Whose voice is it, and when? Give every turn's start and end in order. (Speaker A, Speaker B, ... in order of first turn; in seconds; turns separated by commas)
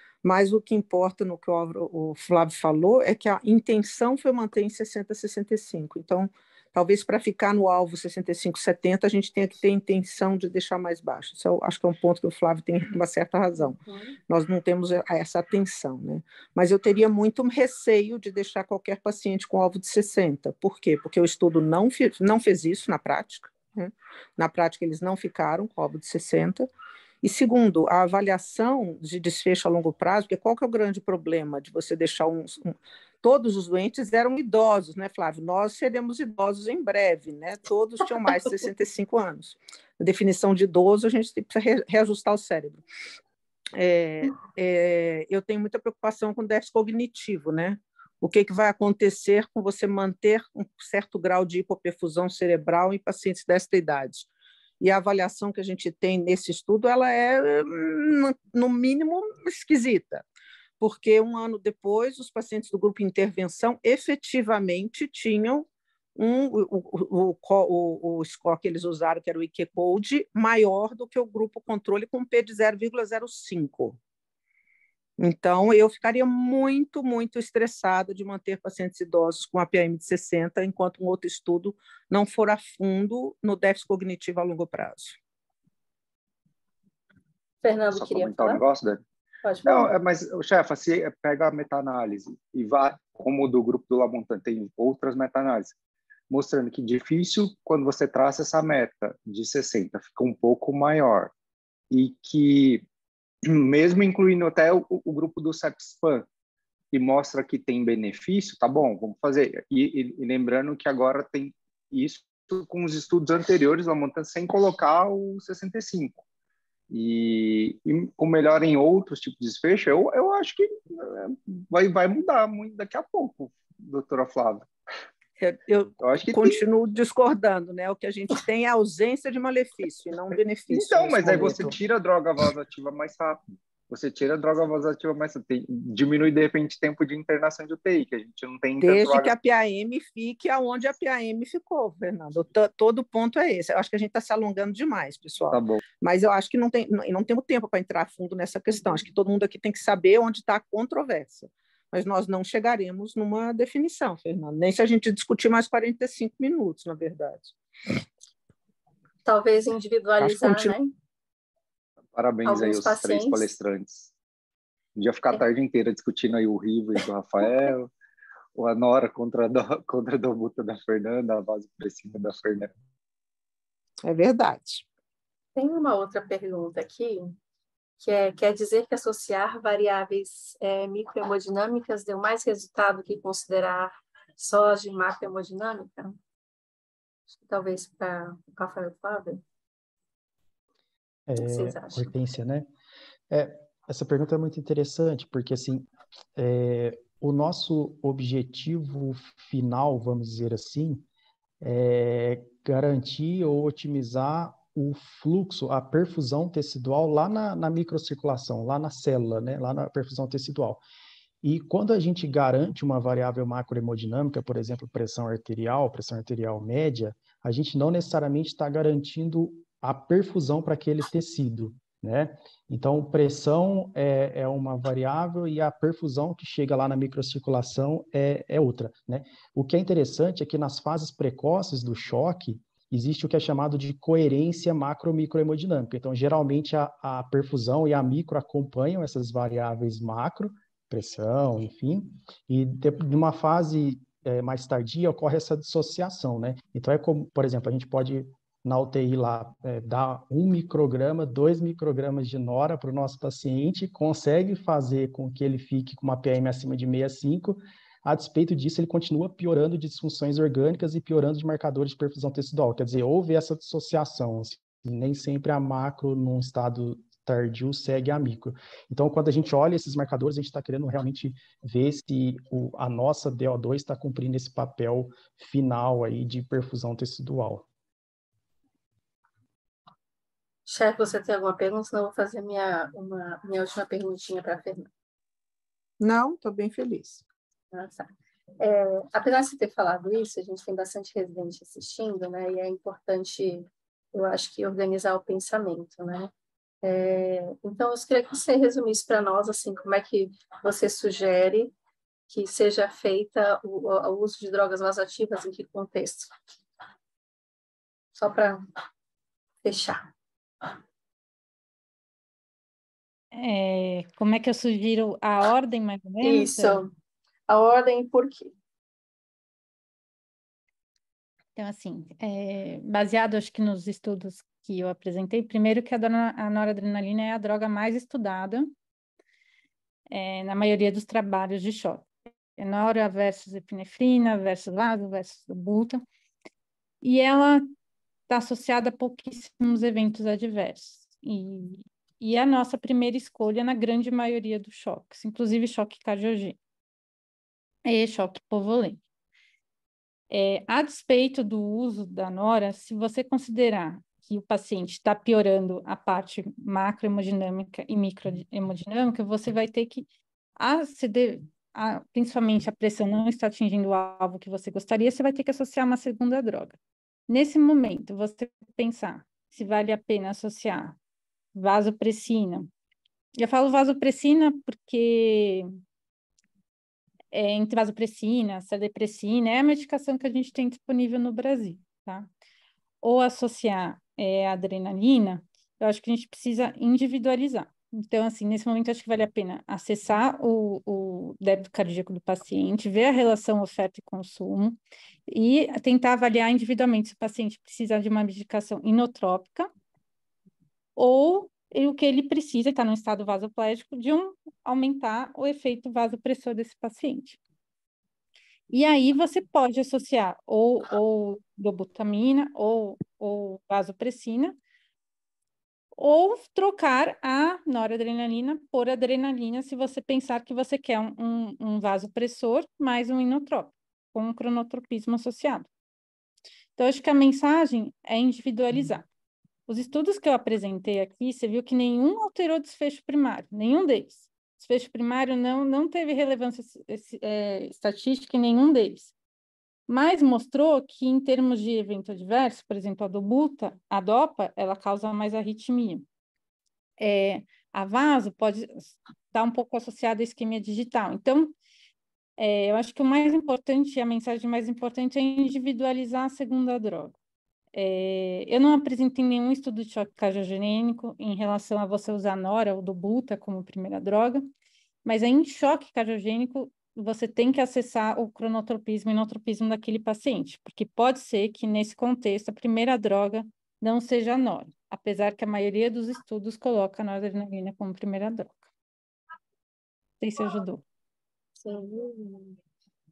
Speaker A: 0.2-26.7, Speaker B: 13.8-14.2, Speaker A: 27.2-42.8, Speaker A: 43.8-54.3, Speaker A: 54.8-60.2, Speaker A: 60.8-74.0, Speaker A: 75.2-85.2, Speaker B: 87.6-88.6, Speaker C: 87.9-89.0, Speaker B: 89.4-89.9, Speaker C: 89.7-95.8, Speaker C: 96.3-101.3, Speaker C: 101.9-102.9, Speaker C: 103.5-106.3, Speaker C: 106.9-116.2, Speaker C: 116.9-124.7, Speaker A: 125.4-131.8, Speaker C: 126.0-126.6, Speaker C: 130.7-139.3, Speaker A: 138.8-157.5, Speaker C: 145.5-145.8, Speaker B: 159.2-160.9, Speaker A: 160.2-160.8, Speaker C: 162.1-164.1, Speaker B: 162.4-163.5, Speaker C: 165.0-167.9, Speaker C: 168.6-172.7, Speaker A: 174.0-174.8, Speaker B: 175.6-177.4, Speaker B: 178.0-186.2, Speaker B: 187.4-189.4, Speaker D: 191.3-192.7, Speaker B: 191.4-192.1, Speaker D: 193.3-201.1, Speaker D: 201.6-210.8, Speaker D: 211.4-277.7, Speaker B: 280.7-284.9, Speaker A: 286.0-287.2, Speaker B: 287.7-296.3, Speaker B: 296.8-301.7, Speaker B: 302.3-306.3, Speaker B: 308.2-308.6, Speaker B: 309.6-310.0, Speaker E: 313.3-316.8, Speaker B: 316.2-316.9, Speaker B: 317.5-318.5, Speaker E: 321.6-328.7, Speaker E: 330.1-336.0, Speaker E: 337.0-337.7, Speaker E: 338.3-346.6, Speaker E: 347.9-349.0, Speaker E: 350.3-366.8, Speaker E: 367.3-371.0, Speaker E: 371.5-372.7, Speaker E: 373.4-375.7, Speaker E: 377.3-382.3, Speaker E: 383.0-399.7, Speaker E: 401.0-407.4, Speaker E: 408.7-414.6, Speaker E: 416.0-425.7, Speaker E: 426.8-429.1, Speaker E: 429.7-439.1, Speaker E: 439.9-446.1, Speaker E: 447.0-451.6, Speaker E: 452.4-457.1, Speaker E: 457.7-464.5, Speaker E: 465.1-478.7, Speaker E: 480.2-480.8, Speaker B: 481.6-482.6